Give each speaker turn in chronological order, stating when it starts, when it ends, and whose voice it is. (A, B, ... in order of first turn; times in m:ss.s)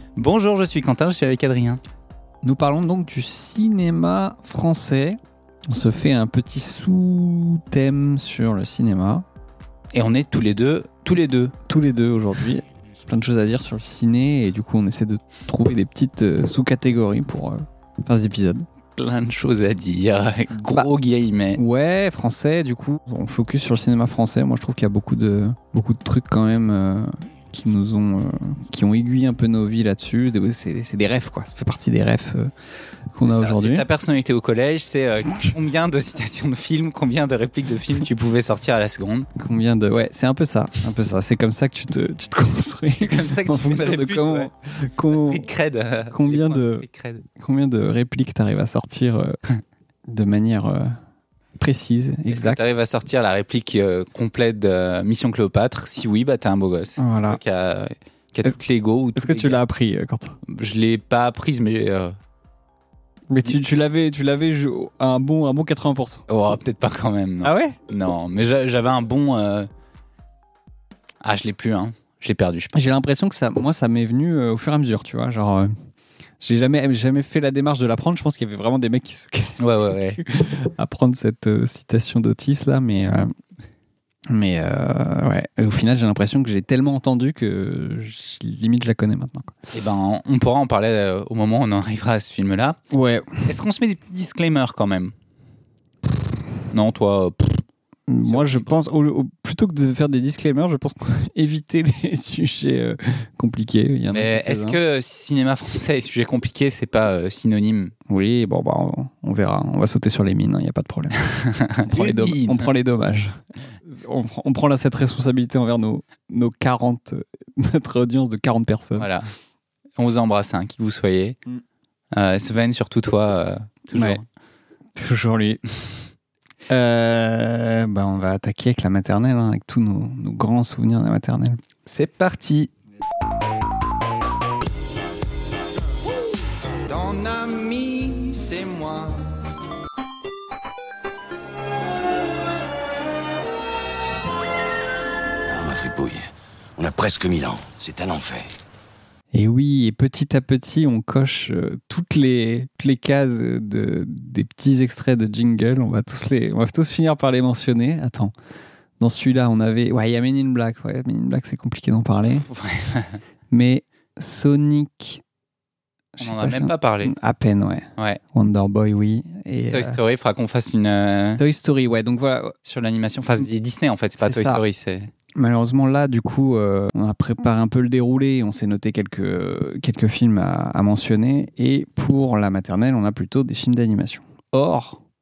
0:00.2-0:01.8 A
0:02.4-0:09.2 B
0:09.9-0:11.5 A
0:11.7-0:18.6 B
0:19.0-0:21.6 A
0:20.6-0:20.9 B
0:21.6-0:32.5 B
0:33.1-0:33.8 B
0:33.2-0:39.3 A
0:39.4-0:45.5 B
0:43.0-0:44.5 A
0:45.1-0:47.2 A
0:46.1-0:46.8 B
0:47.4-0:49.4 B
0:50.1-0:51.0 B
0:51.6-0:52.6 B
0:52.3-0:59.6 A
0:57.0-0:57.4 B
0:59.2-1:00.4 B
1:00.4-1:02.1 A
1:03.3-1:06.2 B
1:06.3-1:09.7 A
1:07.4-1:07.8 B
1:11.2-1:12.7 A
1:12.7-1:15.7 B
1:16.4-1:23.3 B
1:19.6-1:20.2 A
1:24.3-1:29.5 B
1:29.7-1:32.8 A
1:32.9-1:33.4 B
1:33.5-1:35.1 A
1:36.7-1:37.6 A
1:38.1-1:44.8 B
1:38.2-1:38.8 A
1:44.1-1:47.9 A
1:48.1-1:51.1 B
1:51.3-1:52.7 A
1:51.9-1:59.1 B
1:59.0-1:59.2 A
2:00.0-2:01.4 A
2:02.1-2:04.2 A
2:03.9-2:04.2 B
2:04.9-2:05.6 B
2:06.7-2:11.6 B
2:11.8-2:12.7 A
2:16.8-2:19.2 A
2:25.5-2:28.5 C
2:29.3-2:38.3 B
2:39.0-2:42.5 B
2:42.5-2:43.2 A
2:43.5-2:45.2 B
2:46.2-2:50.0 B
2:46.2-2:47.1 A
2:49.7-2:51.4 A
2:51.4-2:52.5 B
2:52.6-2:55.1 A
2:54.2-2:54.6 B
2:55.3-3:05.0 B